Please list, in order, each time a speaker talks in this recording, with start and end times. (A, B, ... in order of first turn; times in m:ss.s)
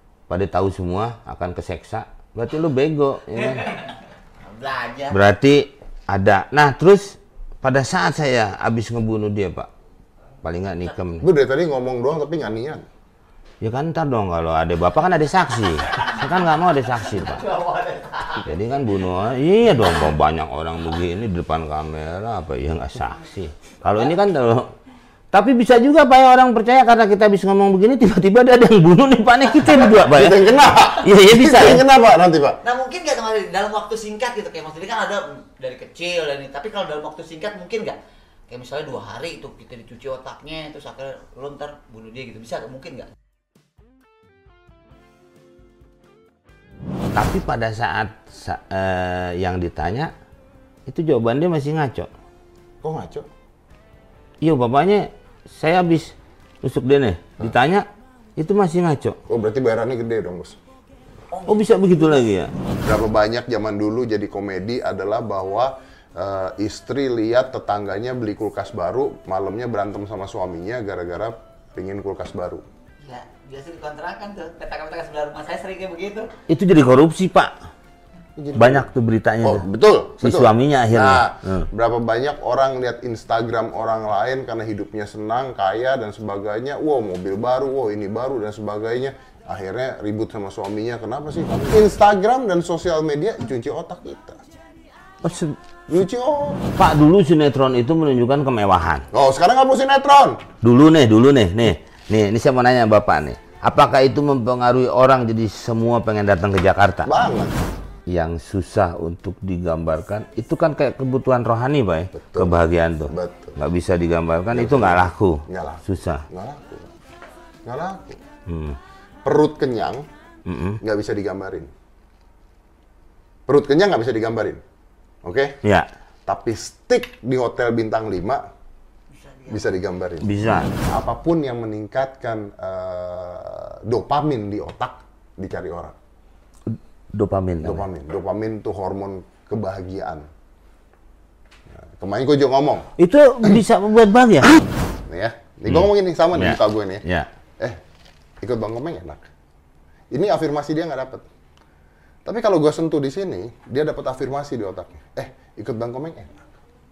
0:00.3-0:03.8 A
0:04.5-0:05.2 B
0:05.1-0:09.7 A
0:10.4-0:11.2 A
0:11.2-0:12.8 C
0:13.6-0:17.5 A
0:17.2-0:18.5 B
0:18.4-0:24.7 A
0:25.3-0:31.8 A
0:29.9-0:32.6 C
0:32.6-0:38.0 B
0:38.5-0:43.1 B
0:47.1-0:50.1 A
0:50.9-0:52.1 A
0:52.8-0:53.3 C
0:54.4-0:57.9 A
0:58.4-0:59.2 A
0:59.3-1:00.6 C
1:01.3-1:02.3 B
1:01.5-1:02.5 A
1:02.8-1:12.6 C
1:13.0-1:16.3 B
1:16.5-1:17.5 A
1:18.4-1:18.9 C
1:18.6-1:19.6 A
1:19.4-1:34.4 C
1:20.2-1:21.7 A
1:35.2-1:35.6 A
1:35.9-1:36.6 C
1:36.8-1:39.1 A
1:39.1-1:40.4 C
1:40.6-1:47.1 A
1:47.0-1:47.5 C
1:48.1-1:56.2 A
1:52.2-1:52.6 C
1:53.1-1:53.6 C
1:54.5-1:56.9 C
1:57.6-1:58.2 C
1:58.5-1:58.8 A
1:59.2-2:00.1 C
2:00.5-2:00.8 A
2:00.8-2:01.7 C
2:03.5-2:04.6 C
2:05.2-2:05.5 C
2:06.3-2:08.4 C
2:09.2-2:09.7 B
2:09.5-2:10.3 C
2:10.2-2:10.7 A
2:10.8-2:15.9 C
2:16.7-2:17.8 A
2:17.6-2:20.3 C
2:21.8-2:22.9 C
2:23.0-2:24.6 A
2:25.1-2:27.0 C
2:25.7-2:27.3 A
2:28.4-2:29.3 C
2:30.1-2:31.2 C
2:32.2-2:36.4 C